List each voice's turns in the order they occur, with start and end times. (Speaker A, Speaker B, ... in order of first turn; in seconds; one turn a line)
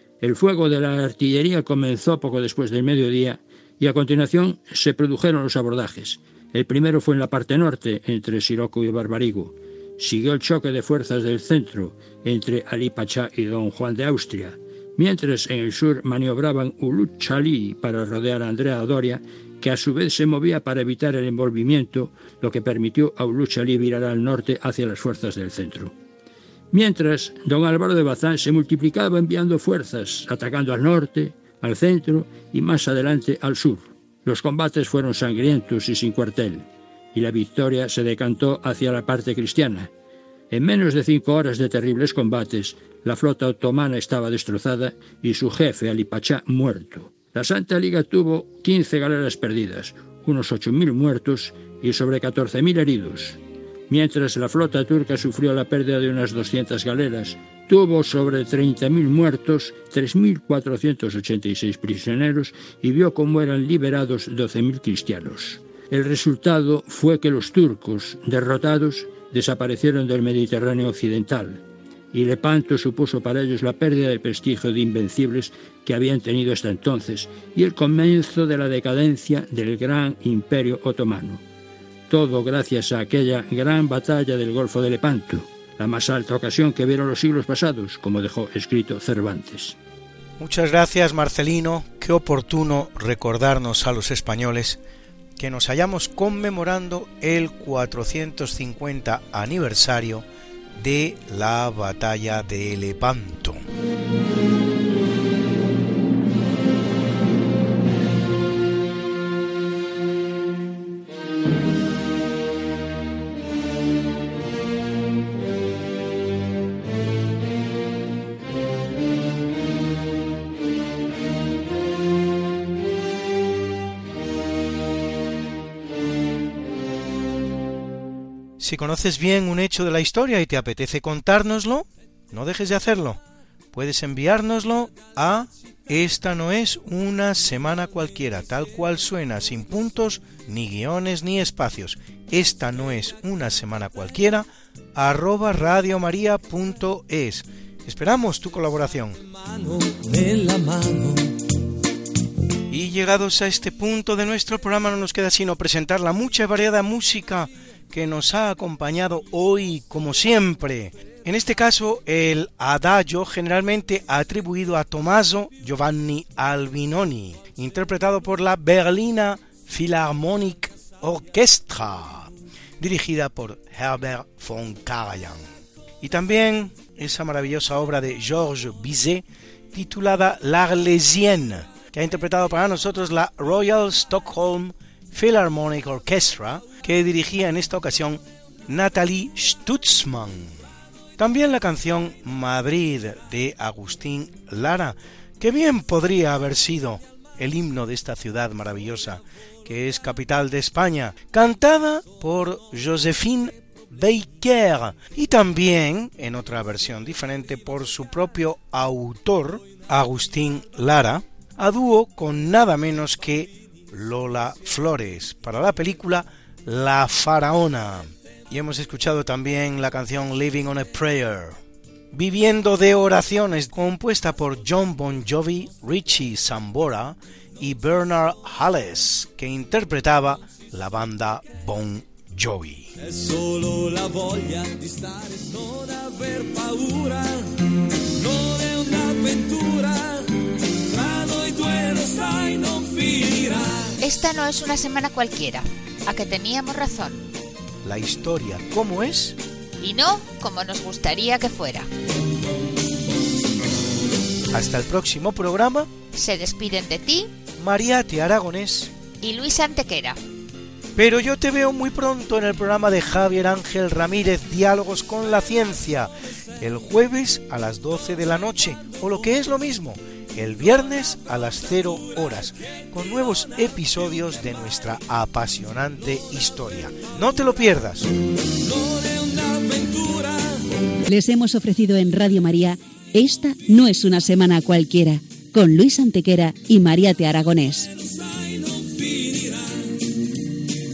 Speaker A: 0.2-25.9
Speaker A: 26.7-39.9
Speaker A: 40.5-53.4
Speaker A: 53.9-71.6
Speaker A: 72.1-81.4
Speaker A: 82.1-89.8
Speaker B: 90.4-94.8
Speaker B: 95.4-103.6
Speaker B: 128.6-133.2
Speaker B: 133.7-149.2
Speaker C: 149.2-151.3
Speaker B: 152.7-175.4
Speaker B: 176.0-190.6
Speaker B: 191.2-221.6
Speaker B: 222.1-232.9
Speaker C: 233.0-244.0
Speaker D: 244.0-247.3
Speaker B: 247.8-249.4
Speaker D: 249.8-251.9
Speaker B: 254.5-255.9
Speaker D: 256.1-257.3
Speaker B: 257.6-258.9
Speaker D: 259.2-260.2
Speaker B: 260.9-278.1
Speaker C: 278.5-280.7
Speaker E: 281.1-287.9
Speaker C: 287.9-289.9